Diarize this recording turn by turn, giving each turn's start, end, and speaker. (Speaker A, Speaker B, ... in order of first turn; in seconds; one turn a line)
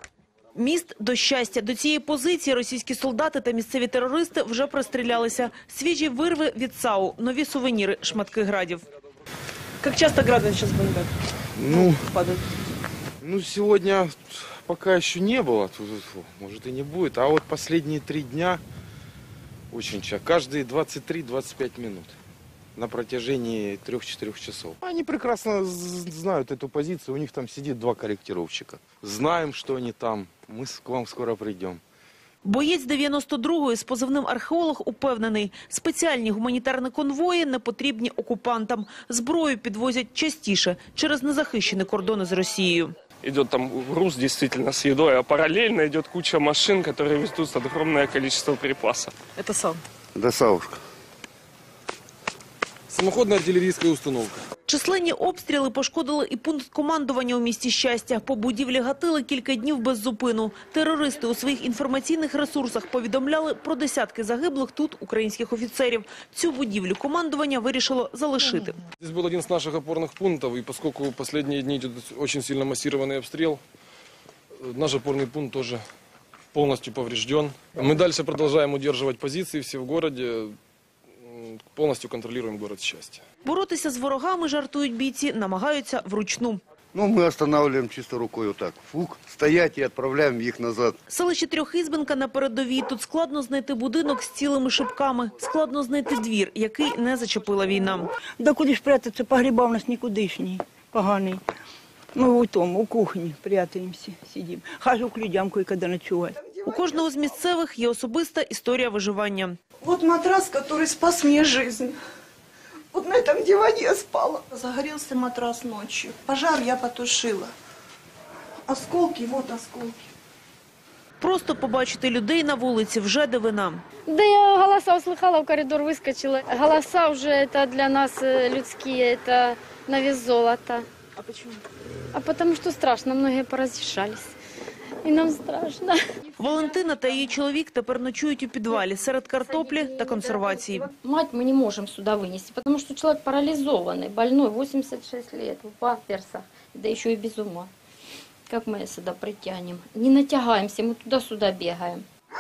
Speaker A: 0.6-8.8
Speaker A: 9.8-11.1
Speaker B: 11.6-12.0
Speaker A: 11.7-12.4
Speaker B: 13.2-18.6
Speaker B: 19.7-22.2
Speaker B: 22.8-31.8
Speaker A: 32.4-42.9
Speaker C: 43.2-49.2
Speaker D: 50.1-50.8
Speaker E: 52.9-54.4
Speaker A: 54.7-68.8
Speaker E: 69.0-73.6
Speaker E: 74.6-75.8
Speaker E: 76.5-80.5
Speaker E: 81.2-83.2
Speaker A: 83.5-86.6
Speaker D: 86.9-91.0
Speaker A: 91.1-98.1
Speaker F: 98.4-101.4
Speaker F: 102.1-106.3
Speaker G: 106.3-107.0
Speaker A: 106.7-109.5
Speaker G: 109.8-112.0
Speaker G: 112.9-117.5
Speaker G: 118.7-120.1
Speaker A: 121.2-123.8
Speaker H: 124.1-130.9
Speaker H: 132.1-134.3
Speaker H: 135.0-136.0
Speaker A: 136.4-140.9
Speaker H: 139.8-147.7
Speaker H: 148.5-152.1